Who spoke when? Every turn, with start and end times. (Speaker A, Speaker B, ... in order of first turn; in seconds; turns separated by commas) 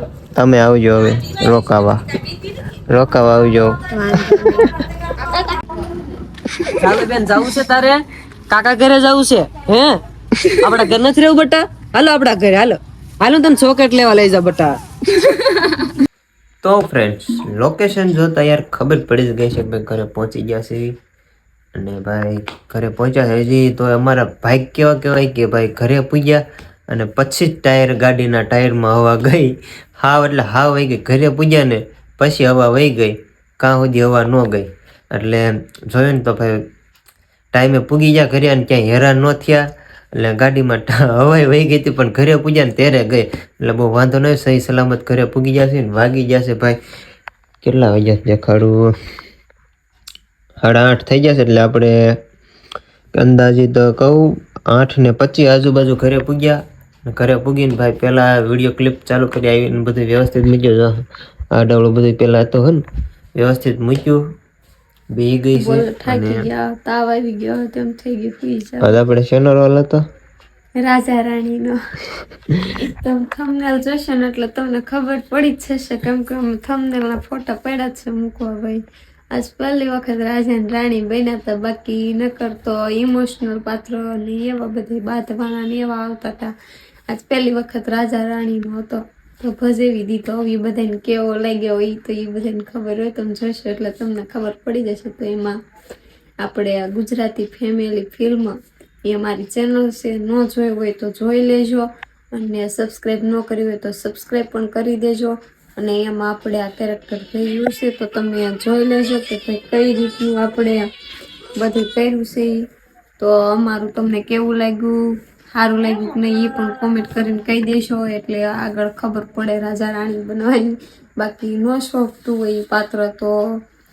Speaker A: 0.3-2.0, Speaker A: 2.9-3.8, Speaker B: 3.9-4.7, Speaker C: 6.8-14.8, Speaker A: 16.6-20.9, Speaker A: 21.8-36.7, Speaker A: 37.5-46.8, Speaker A: 47.6-49.0, Speaker A: 50.6-52.2, Speaker A: 53.1-62.8, Speaker A: 63.4-64.2, Speaker A: 65.1-66.5, Speaker B: 65.5-69.0, Speaker A: 68.8-70.0, Speaker B: 70.8-71.8, Speaker B: 72.8-86.5, Speaker B: 87.1-95.6, Speaker B: 96.4-110.8, Speaker B: 111.5-112.7, Speaker B: 113.2-123.3